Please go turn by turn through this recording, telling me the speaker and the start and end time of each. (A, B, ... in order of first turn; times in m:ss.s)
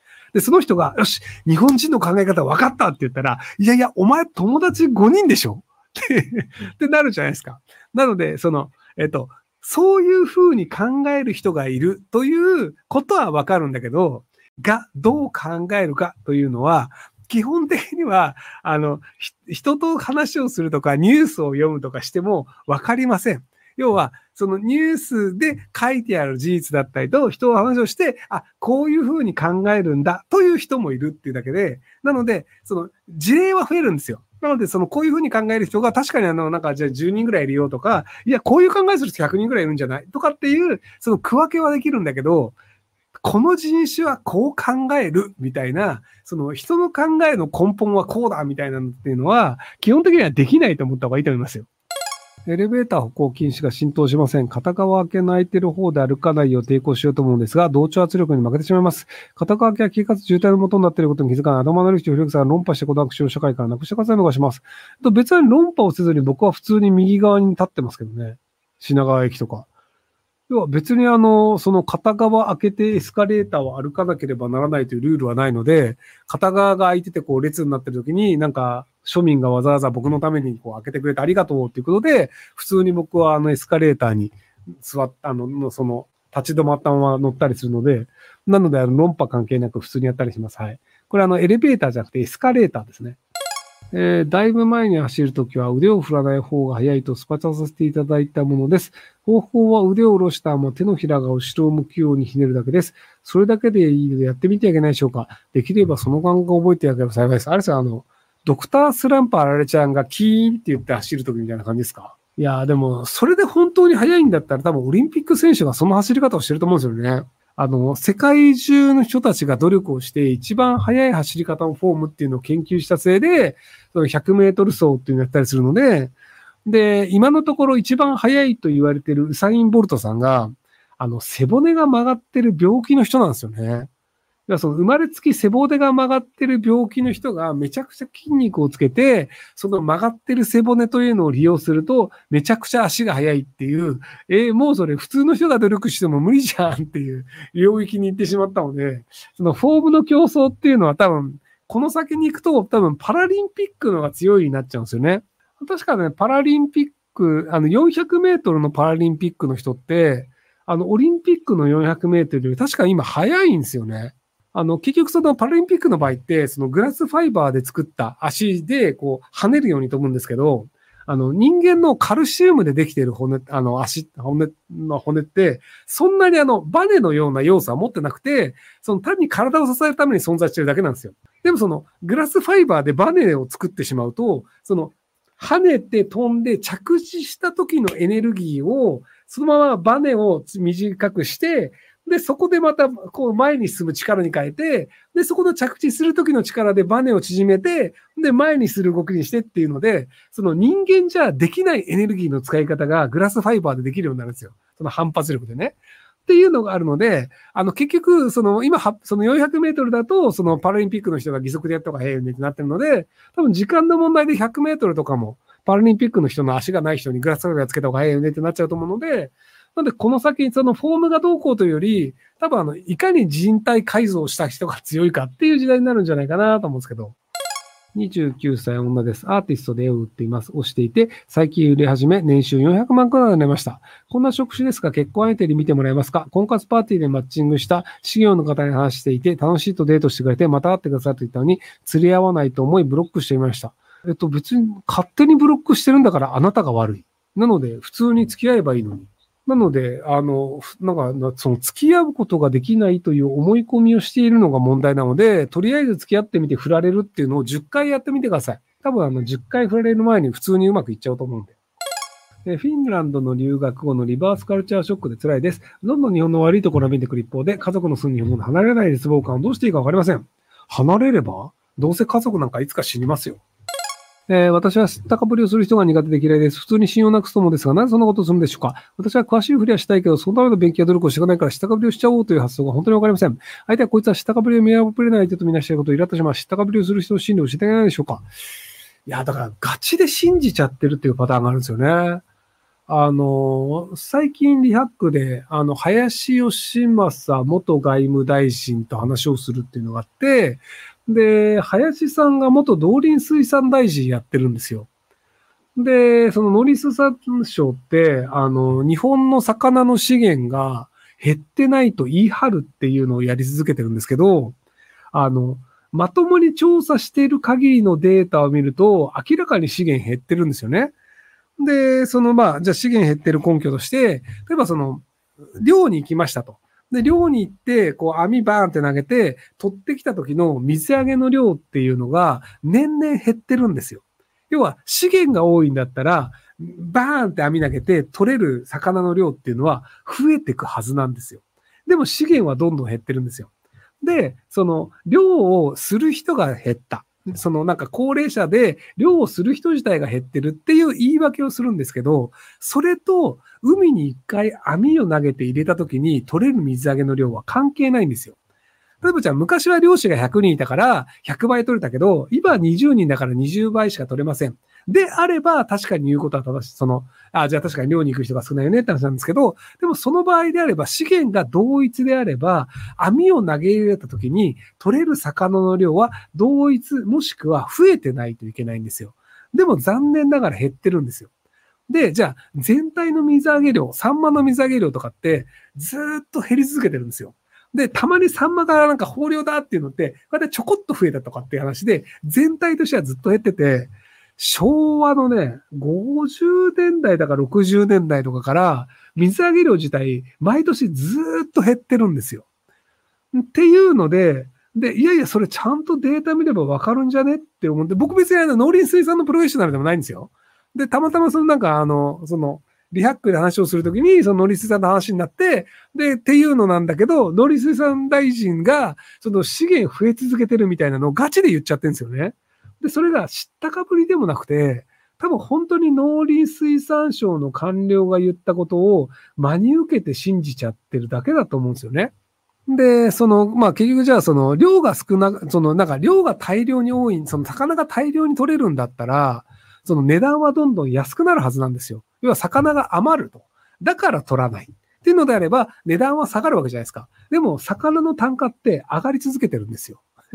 0:00.3-0:42.6 A
0:43.2-0:51.7 A
0:52.5-1:09.7 A
1:10.5-1:33.2 A
1:33.9-2:06.1 A
2:06.6-2:13.9 A
2:14.5-3:47.2 A
3:47.9-4:21.6 A
4:22.4-4:33.4 A
4:34.3-4:48.3 A
4:49.1-4:52.2 A
4:52.9-5:04.9 A
5:05.8-5:14.6 A
5:15.1-5:20.9 A
5:21.6-5:25.1 A
5:25.6-5:43.5 A
5:44.0-5:58.4 A
5:59.0-6:21.3 A
6:21.9-6:42.4 A
6:43.3-7:12.1 A
7:12.7-7:30.0 A